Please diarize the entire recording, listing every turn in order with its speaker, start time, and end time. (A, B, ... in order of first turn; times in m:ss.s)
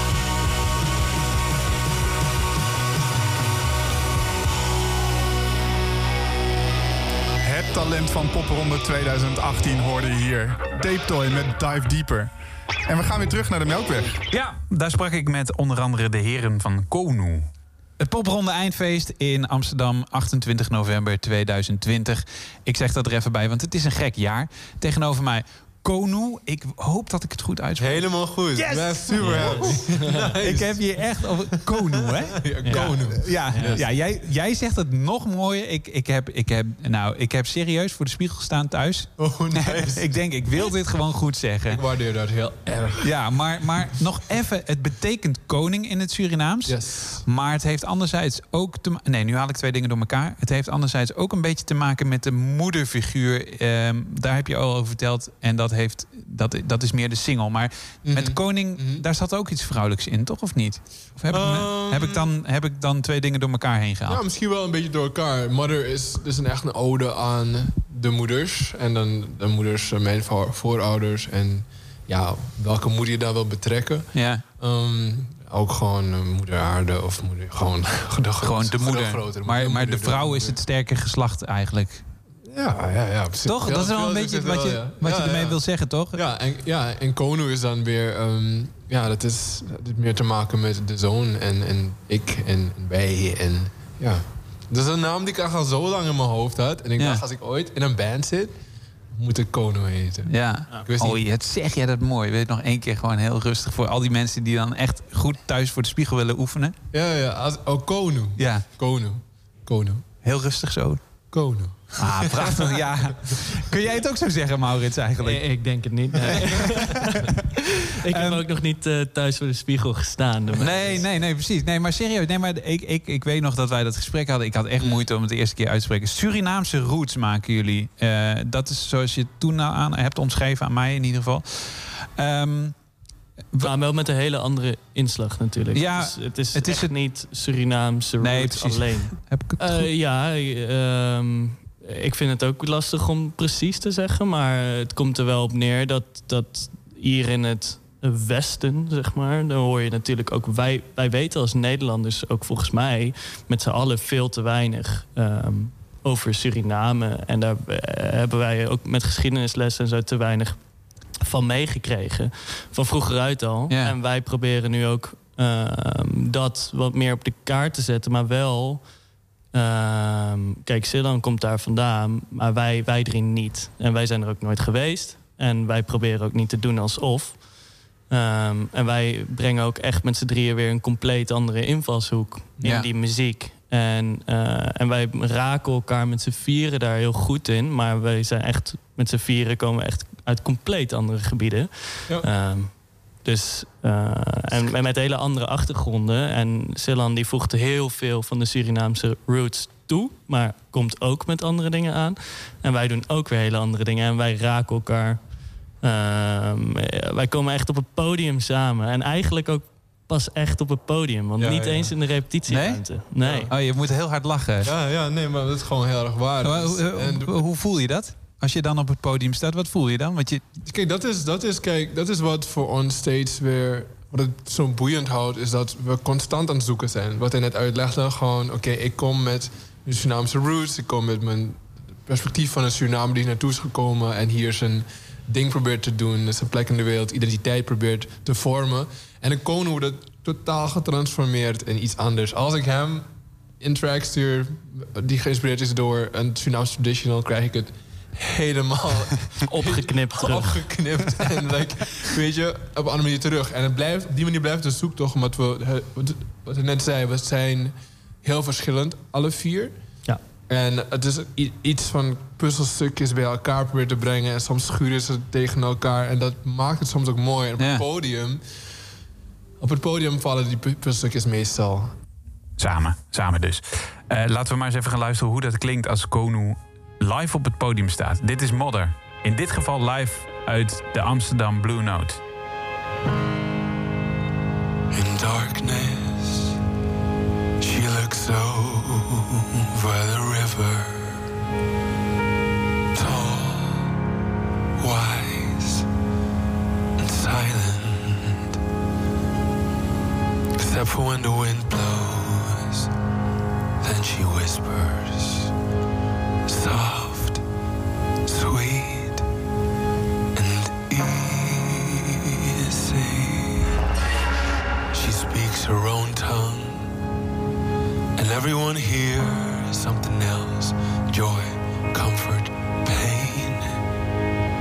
0:07.4-0:12.3 A
0:12.8-0:14.1 A
0:14.3-0:28.1 B
0:27.8-0:33.9 C
0:29.2-0:30.4 D
0:29.2-0:29.8 B
0:30.4-0:41.8 B
0:32.6-0:33.8 D
0:39.2-0:40.2 C
0:41.7-0:43.1 C
0:43.0-1:04.2 B
0:46.6-0:47.3 C
0:58.0-0:59.0 C
1:01.3-1:02.3 C
1:04.0-1:20.6 C
1:14.1-1:14.4 B
1:18.4-1:22.0 B
1:22.5-1:38.5 C
1:23.4-1:26.2 B
1:39.2-1:41.2 C
1:40.3-1:46.7 B
1:46.9-1:50.0 C
1:48.4-1:48.6 B
1:50.2-1:51.2 B
1:51.3-1:52.7 C
1:52.0-1:56.9 B
1:55.2-1:57.3 D
1:58.0-2:01.1 D
1:58.1-1:58.4 B
2:00.6-2:12.8 B
2:13.6-2:40.6 D
2:15.7-2:16.9 B
2:18.2-2:19.9 B
2:41.2-2:48.9 D
2:43.7-2:43.9 B
2:49.5-2:57.4 D
2:58.1-3:33.5 D
3:02.6-3:02.9 B
3:31.4-3:31.9 C
3:32.5-3:34.7 B
3:33.2-3:33.5 C
3:34.6-3:37.4 C
3:36.4-3:40.4 B
3:40.6-4:03.0 C
4:03.6-4:19.8 C
4:09.4-4:10.7 D
4:20.5-4:28.4 C
4:27.6-4:27.8 B
4:29.6-4:31.9 C
4:32.6-4:42.2 B
4:44.9-4:46.6 E
4:47.6-4:51.2 E
4:52.9-4:53.9 E
4:54.8-4:55.8 E
4:57.0-4:58.5 E
5:00.6-5:02.9 E
5:03.8-5:05.5 E
5:06.4-5:07.4 E
5:08.2-5:09.2 E
5:10.3-5:13.7 E
5:14.9-5:16.9 E
5:18.2-5:23.7 E